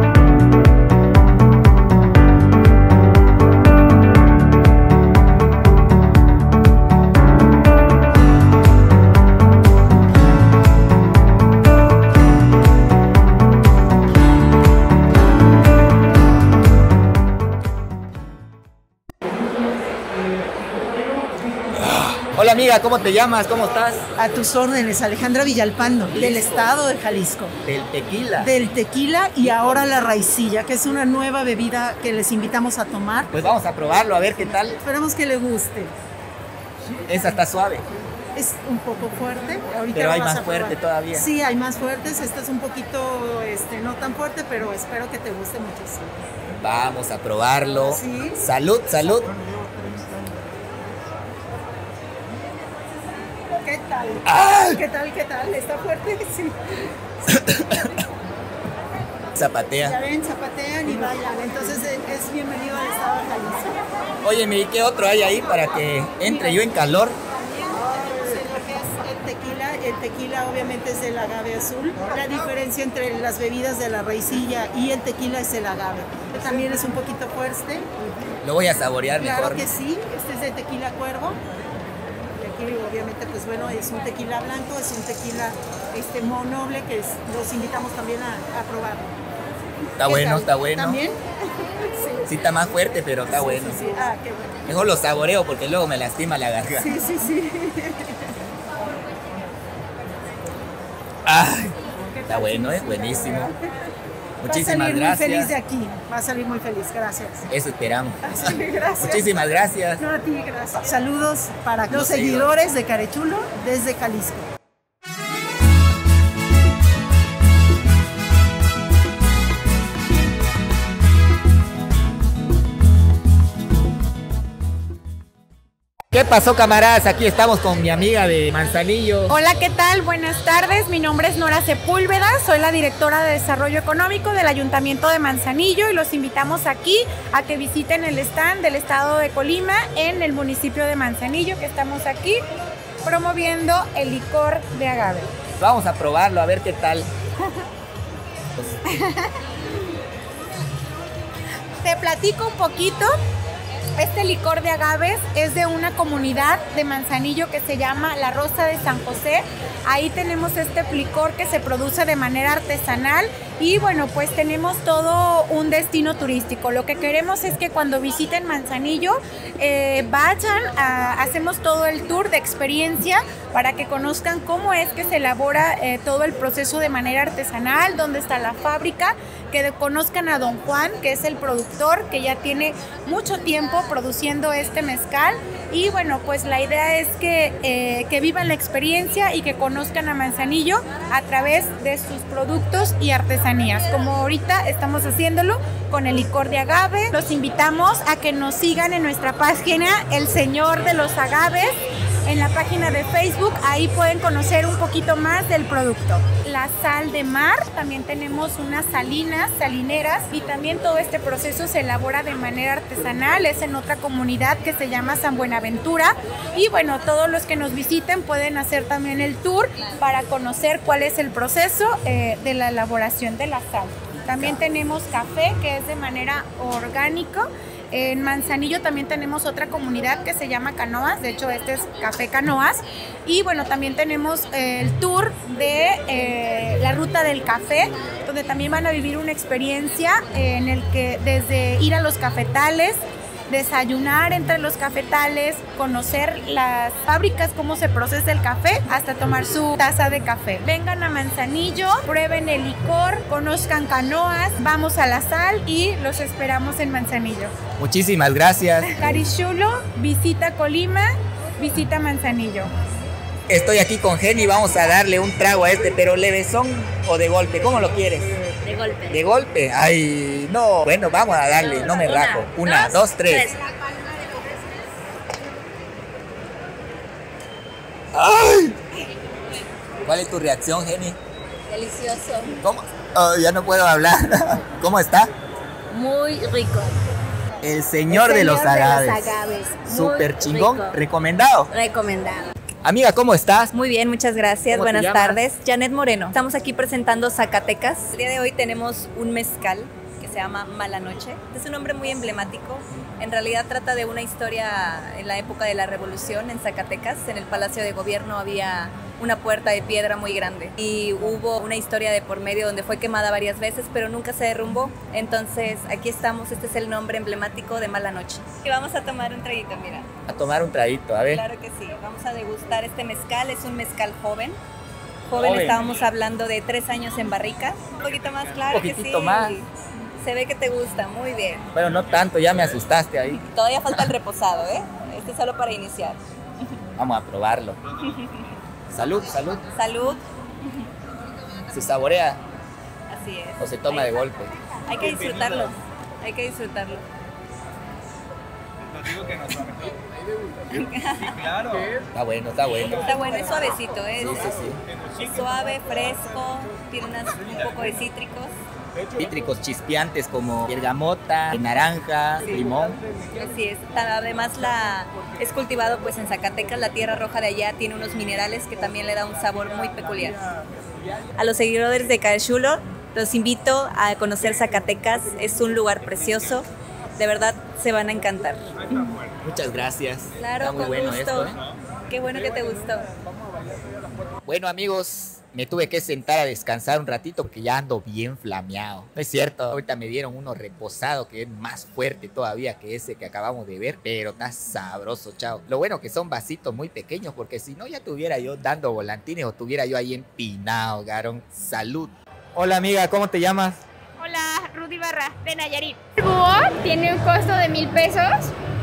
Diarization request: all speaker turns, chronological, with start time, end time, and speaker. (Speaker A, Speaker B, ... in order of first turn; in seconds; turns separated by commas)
Speaker A: 21.8-24.0, Speaker B: 24.1-27.5, Speaker A: 26.1-26.7, Speaker A: 27.6-28.5, Speaker B: 28.4-33.3, Speaker A: 29.4-29.9, Speaker A: 33.3-34.8, Speaker B: 34.8-35.9, Speaker A: 37.1-37.8, Speaker B: 38.3-46.1, Speaker A: 39.9-41.3, Speaker A: 46.6-49.3, Speaker B: 47.8-48.4, Speaker B: 53.5-56.8, Speaker A: 54.2-54.8, Speaker A: 57.3-58.0, Speaker A: 59.3-60.0, Speaker B: 59.8-63.8, Speaker A: 64.2-67.2, Speaker B: 67.5-77.9, Speaker A: 78.4-79.7, Speaker B: 79.2-81.4, Speaker B: 82.4-89.1, Speaker A: 90.0-91.0, Speaker B: 90.0-91.2, Speaker B: 91.8-92.2, Speaker A: 92.3-93.8, Speaker B: 93.3-94.6, Speaker A: 94.7-96.9, Speaker B: 96.8-98.3, Speaker A: 101.2-103.5, Speaker B: 102.2-103.5, Speaker A: 104.4-105.5, Speaker B: 104.5-107.4, Speaker A: 107.5-110.0, Speaker B: 108.2-114.5, Speaker A: 111.9-112.5, Speaker A: 126.1-129.3, Speaker C: 129.3-142.4, Speaker C: 143.0-145.3, Speaker A: 145.6-147.1, Speaker A: 148.5-148.8, Speaker C: 151.8-153.1, Speaker C: 153.9-201.7, Speaker C: 202.2-257.5, Speaker A: 257.8-259.0, Speaker C: 258.9-261.1, Speaker C: 261.6-262.7, Speaker A: 263.5-268.3, Speaker D: 268.6-269.1, Speaker A: 269.1-273.6, Speaker D: 271.8-273.4, Speaker A: 278.1-278.8, Speaker A: 280.0-281.2, Speaker D: 281.7-282.6, Speaker A: 282.6-285.3, Speaker D: 285.9-286.9, Speaker A: 287.6-289.3, Speaker D: 288.1-291.0, Speaker A: 289.8-291.7, Speaker D: 291.7-292.5, Speaker A: 292.8-293.7, Speaker E: 293.7-320.1, Speaker A: 294.7-295.4, Speaker A: 320.3-321.4, Speaker E: 321.3-324.6, Speaker E: 325.3-329.7, Speaker A: 325.4-325.8, Speaker A: 328.7-329.6, Speaker E: 330.2-331.6, Speaker A: 331.7-333.4, Speaker E: 333.3-336.2, Speaker A: 337.0-337.8, Speaker E: 338.0-338.4, Speaker A: 338.9-339.6, Speaker E: 339.7-340.9, Speaker A: 341.7-342.4, Speaker E: 343.1-344.1, Speaker A: 343.6-344.5, Speaker E: 344.9-347.1, Speaker E: 349.5-349.8, Speaker E: 350.7-351.5, Speaker A: 352.1-353.1, Speaker E: 352.9-354.5, Speaker A: 354.2-354.8, Speaker E: 355.1-358.6, Speaker A: 359.2-363.0, Speaker E: 363.3-370.4, Speaker E: 371.4-379.2, Speaker A: 379.4-381.6, Speaker E: 380.4-381.5, Speaker E: 382.1-383.1, Speaker A: 384.4-403.8, Speaker F: 404.2-408.5